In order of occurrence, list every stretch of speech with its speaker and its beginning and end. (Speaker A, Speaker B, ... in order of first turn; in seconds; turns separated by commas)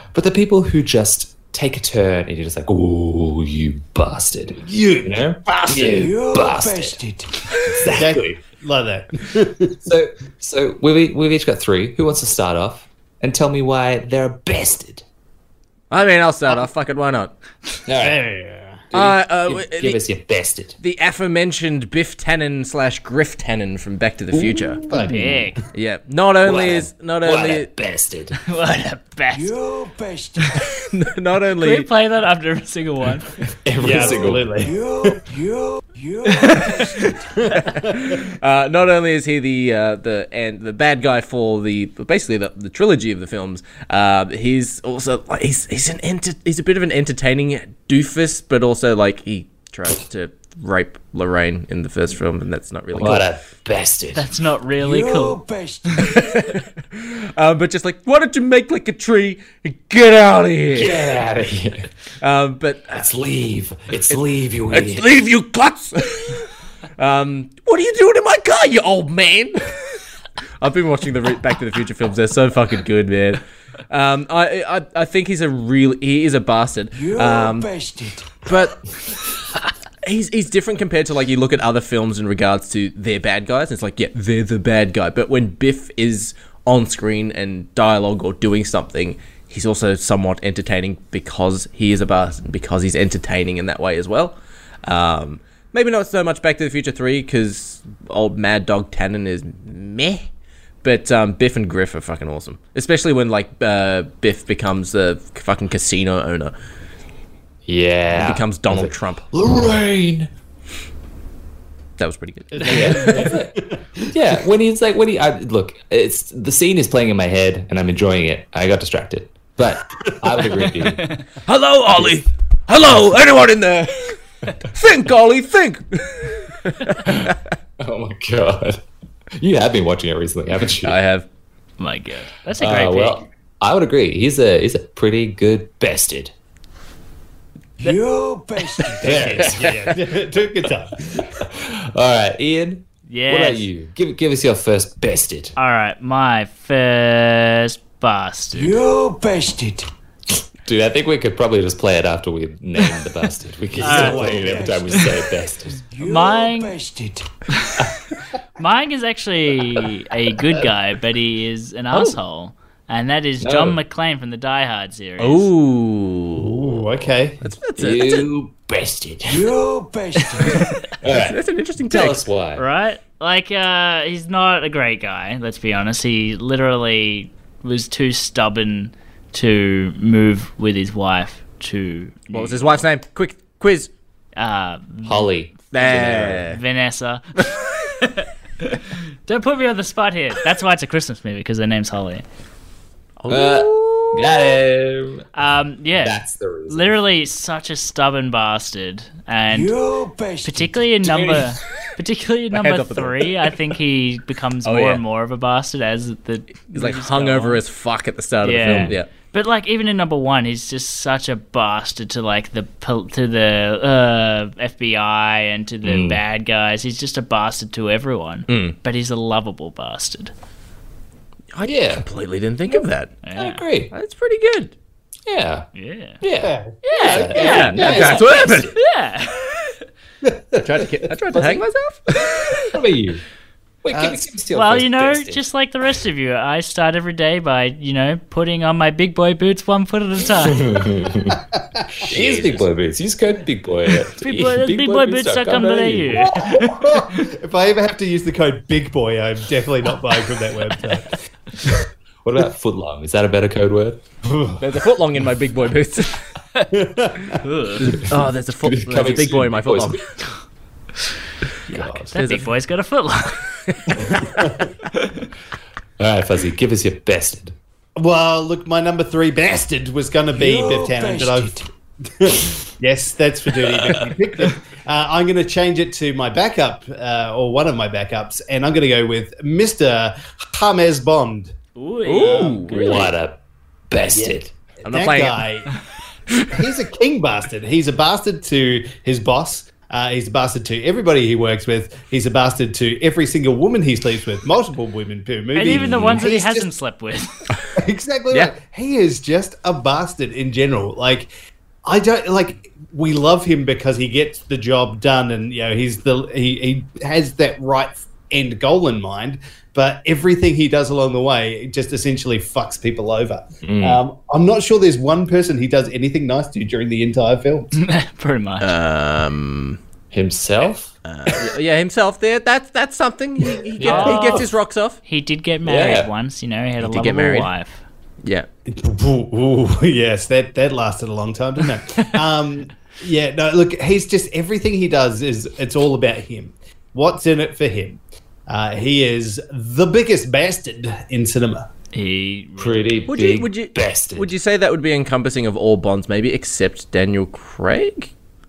Speaker A: 0.1-7.0, Speaker B: 4.6-6.0, Speaker C: 5.8-7.9, Speaker A: 7.7-8.4, Speaker B: 7.9-9.8, Speaker A: 9.8-15.0, Speaker D: 15.9-17.3, Speaker A: 17.9-18.2, Speaker B: 18.0-18.9, Speaker A: 18.9-20.8, Speaker D: 18.9-20.0, Speaker D: 20.8-24.8, Speaker A: 24.3-25.5, Speaker B: 24.9-25.2, Speaker E: 24.9-25.6, Speaker D: 25.7-27.7, Speaker A: 26.4-28.4, Speaker E: 28.4-29.5, Speaker C: 29.3-30.6, Speaker D: 30.7-31.9, Speaker E: 31.6-33.3, Speaker A: 33.5-34.5, Speaker B: 33.8-35.2, Speaker C: 33.9-37.2, Speaker E: 36.4-36.9, Speaker B: 37.4-38.1, Speaker D: 37.7-53.3, Speaker A: 52.9-54.3, Speaker E: 54.1-55.4, Speaker C: 54.8-56.2, Speaker D: 56.1-61.0, Speaker A: 60.7-61.9, Speaker D: 62.2-63.0, Speaker A: 62.9-65.1, Speaker D: 64.1-70.0, Speaker D: 70.6-77.7, Speaker C: 76.9-78.4, Speaker D: 78.4-78.8, Speaker D: 80.0-100.3, Speaker D: 100.8-106.5, Speaker A: 107.7-110.3, Speaker D: 108.1-109.2, Speaker D: 112.0-113.3, Speaker B: 112.5-114.1, Speaker A: 112.6-121.1, Speaker E: 121.0-121.2, Speaker D: 121.5-127.4, Speaker A: 127.0-128.8, Speaker A: 129.4-131.0, Speaker D: 130.7-131.3, Speaker E: 131.8-133.2, Speaker A: 132.6-136.3, Speaker C: 137.8-139.4, Speaker A: 139.0-140.2, Speaker B: 139.0-141.3, Speaker A: 141.2-145.6, Speaker E: 143.1-143.7, Speaker E: 145.6-148.8, Speaker C: 148.5-149.9, Speaker A: 150.6-155.8, Speaker B: 153.8-154.9, Speaker E: 153.8-154.3, Speaker C: 154.0-155.1, Speaker C: 155.9-157.3, Speaker E: 156.0-156.8, Speaker E: 158.6-165.5, Speaker A: 163.4-163.8, Speaker D: 165.2-166.9, Speaker B: 166.3-167.4, Speaker D: 167.4-168.3, Speaker A: 167.8-169.5, Speaker C: 169.3-170.7, Speaker E: 170.5-170.8, Speaker A: 171.0-172.7, Speaker D: 171.0-172.2, Speaker E: 172.6-182.8, Speaker D: 182.3-183.9, Speaker E: 184.4-185.3, Speaker A: 185.0-186.5, Speaker D: 185.7-186.6, Speaker E: 186.4-187.3, Speaker E: 188.0-192.2, Speaker D: 193.2-194.4, Speaker A: 193.3-195.3, Speaker E: 195.3-199.8, Speaker A: 196.0-197.0, Speaker C: 199.5-201.5, Speaker E: 200.4-207.6, Speaker D: 202.5-203.6, Speaker D: 204.7-205.0, Speaker D: 206.7-209.1, Speaker E: 208.4-220.3, Speaker A: 215.8-216.2, Speaker D: 218.5-218.8, Speaker D: 221.5-223.2, Speaker A: 221.7-222.1, Speaker E: 223.2-223.6, Speaker A: 223.4-223.9, Speaker D: 223.9-224.7, Speaker A: 225.3-225.7, Speaker E: 225.8-226.2, Speaker A: 226.2-228.8, Speaker B: 226.4-227.2, Speaker E: 226.8-229.8, Speaker D: 227.3-228.7, Speaker B: 227.8-228.2, Speaker B: 230.2-230.6, Speaker D: 230.6-232.7, Speaker A: 232.6-233.2, Speaker A: 233.8-235.4, Speaker B: 233.9-234.2, Speaker E: 234.5-240.7, Speaker A: 240.4-241.4, Speaker B: 241.3-242.4, Speaker A: 242.1-246.5, Speaker D: 242.1-242.6, Speaker E: 244.2-246.9, Speaker B: 246.2-251.8, Speaker A: 252.2-254.0, Speaker B: 254.3-254.6, Speaker D: 254.6-256.2, Speaker B: 256.7-257.4, Speaker E: 257.4-257.9, Speaker D: 257.8-260.0, Speaker A: 257.9-260.0, Speaker E: 261.7-263.5, Speaker B: 261.7-262.1, Speaker D: 262.1-262.5, Speaker D: 263.9-264.1, Speaker B: 264.2-264.7, Speaker A: 266.0-267.6, Speaker B: 268.0-281.6, Speaker C: 270.3-271.7, Speaker E: 281.8-283.1, Speaker D: 282.1-283.1, Speaker B: 282.2-283.1, Speaker A: 282.7-283.4, Speaker A: 283.9-284.5, Speaker B: 284.1-285.7, Speaker D: 284.8-285.5, Speaker B: 286.4-296.7, Speaker E: 295.5-297.5, Speaker A: 295.7-296.2, Speaker B: 297.8-301.3, Speaker B: 301.9-317.7, Speaker A: 313.6-314.0, Speaker E: 317.8-318.7, Speaker D: 318.6-319.8, Speaker A: 320.1-320.9, Speaker D: 321.1-325.0, Speaker A: 323.8-324.2, Speaker E: 323.8-324.5, Speaker B: 323.9-324.4, Speaker E: 325.1-327.8, Speaker A: 325.6-326.1, Speaker D: 326.8-327.5, Speaker B: 328.7-341.7, Speaker E: 341.9-343.1, Speaker A: 342.6-344.3, Speaker D: 343.1-348.1